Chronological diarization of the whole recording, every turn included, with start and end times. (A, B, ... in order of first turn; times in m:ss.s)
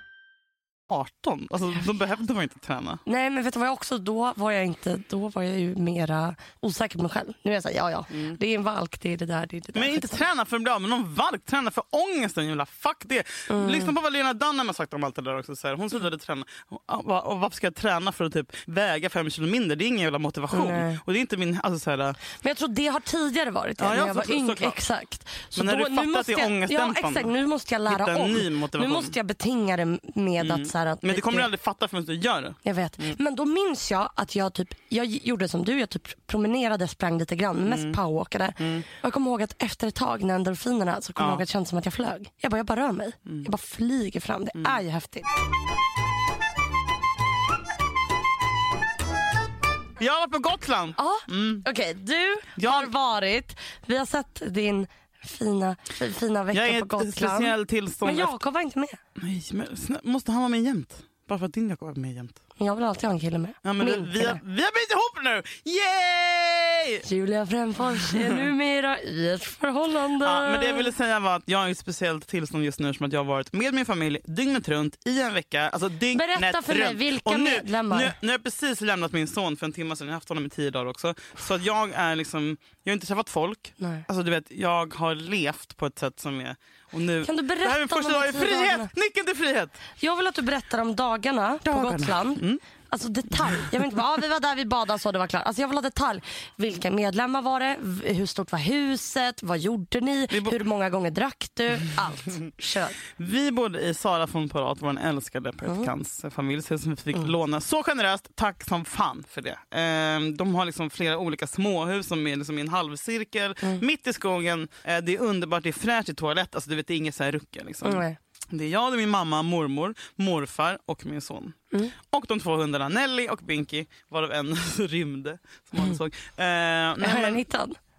0:00.9-0:03.0 A
0:03.1-0:10.2 B
0:08.1-0:08.4 A
0:09.7-0:22.2 A
0:13.5-0:13.9 B
0:20.5-0:21.0 B
0:22.4-0:31.5 B
0:23.8-0:24.8 A
0:25.6-0:27.3 A
0:27.9-0:29.1 A
0:30.4-0:33.2 A
0:32.6-0:45.3 B
0:37.6-0:38.0 A
0:38.6-0:38.8 A
0:41.2-0:41.4 A
0:50.0-0:51.6 A
0:51.0-0:59.0 B
0:52.6-0:52.9 A
0:56.5-0:58.3 A
0:59.2-1:02.4 A
1:02.6-1:04.4 B
1:03.6-1:07.0 A
1:07.0-1:10.9 B
1:08.0-1:08.4 A
1:10.2-1:29.8 A
1:16.1-1:18.2 B
1:23.8-1:24.0 B
1:27.2-1:28.9 B
1:30.0-1:43.0 B
1:31.6-1:32.6 A
1:40.3-1:40.6 A
1:43.2-2:07.4 A
1:57.8-1:58.2 B
2:07.0-2:07.8 B